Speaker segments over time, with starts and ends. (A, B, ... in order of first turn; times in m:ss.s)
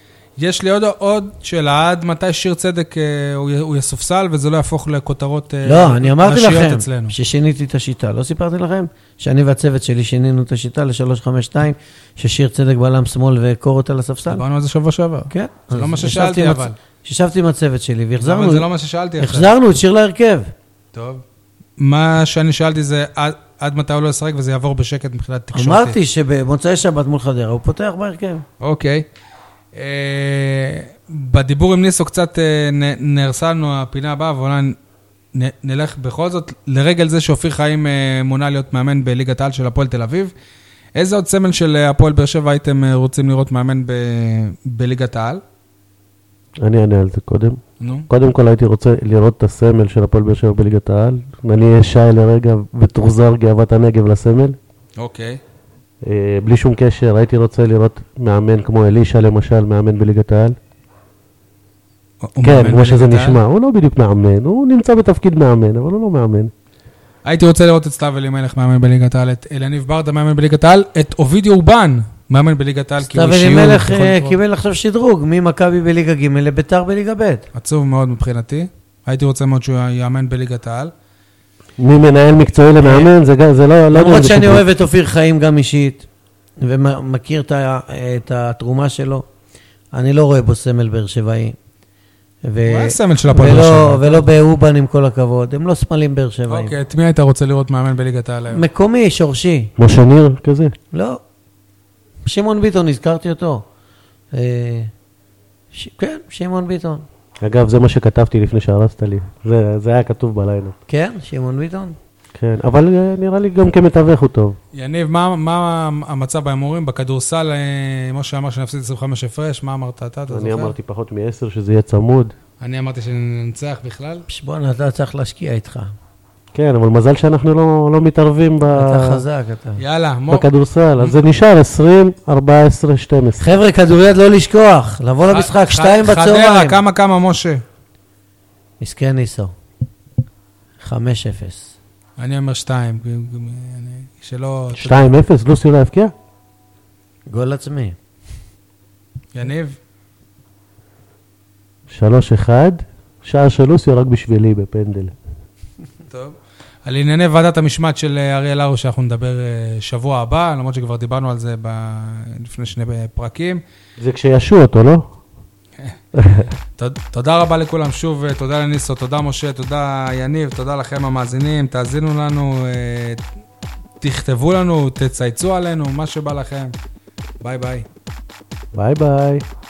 0:00.4-0:07.1 A
0:05.6-0:14.4 B
0:14.3-0:16.8 A
0:15.3-0:18.6 B
0:18.2-0:19.5 A
0:19.2-0:20.5 B
0:20.9-0:21.2 A
0:21.8-0:26.0 A
0:25.5-0:28.4 B
0:28.6-0:29.0 A
0:29.7-0:34.8 A
0:35.3-0:40.3 A
0:41.0-0:45.4 A
0:46.6-0:54.6 C
0:47.8-0:48.1 A
0:55.0-0:55.4 A
0:56.0-1:00.6 C
1:02.2-1:03.4 A
1:02.4-1:06.5 C
1:07.2-1:14.4 A
1:13.0-1:17.4 B
1:17.5-1:20.9 A
1:21.8-1:24.6 C
1:22.8-1:23.1 B
1:23.9-1:26.0 B
1:26.6-1:29.2 B
1:29.9-1:31.5 B
1:32.4-1:36.7 B
1:32.6-1:34.2 A
1:36.5-1:38.6 A
1:38.5-1:39.7 B
1:39.8-1:40.7 C
1:40.9-1:41.2 B
1:42.2-1:43.6 B
1:44.3-1:44.9 B
1:45.7-1:47.0 B
1:47.4-1:50.8 C
1:50.9-1:52.0 B
1:52.4-1:54.6 C
1:54.7-2:00.7 A
2:00.3-2:02.3 C
2:02.6-2:04.2 A
2:04.3-2:05.9 B
2:06.5-2:09.2 C
2:08.7-2:09.8 B
2:09.8-2:10.5 A
2:10.3-2:13.6 C
2:13.4-2:16.8 B
2:15.3-2:17.6 A
2:18.8-2:19.5 B
2:20.8-2:21.7 B
2:22.2-2:25.0 A
2:24.8-2:26.1 C
2:27.3-2:28.0 B
2:29.3-2:29.8 A
2:31.9-2:35.1 C
2:36.1-2:43.6 A
2:44.0-2:45.1 C
2:46.2-2:46.4 C
2:46.8-2:53.2 A
2:54.0-2:56.7 A
2:57.4-2:57.8 A
2:58.7-2:59.4 C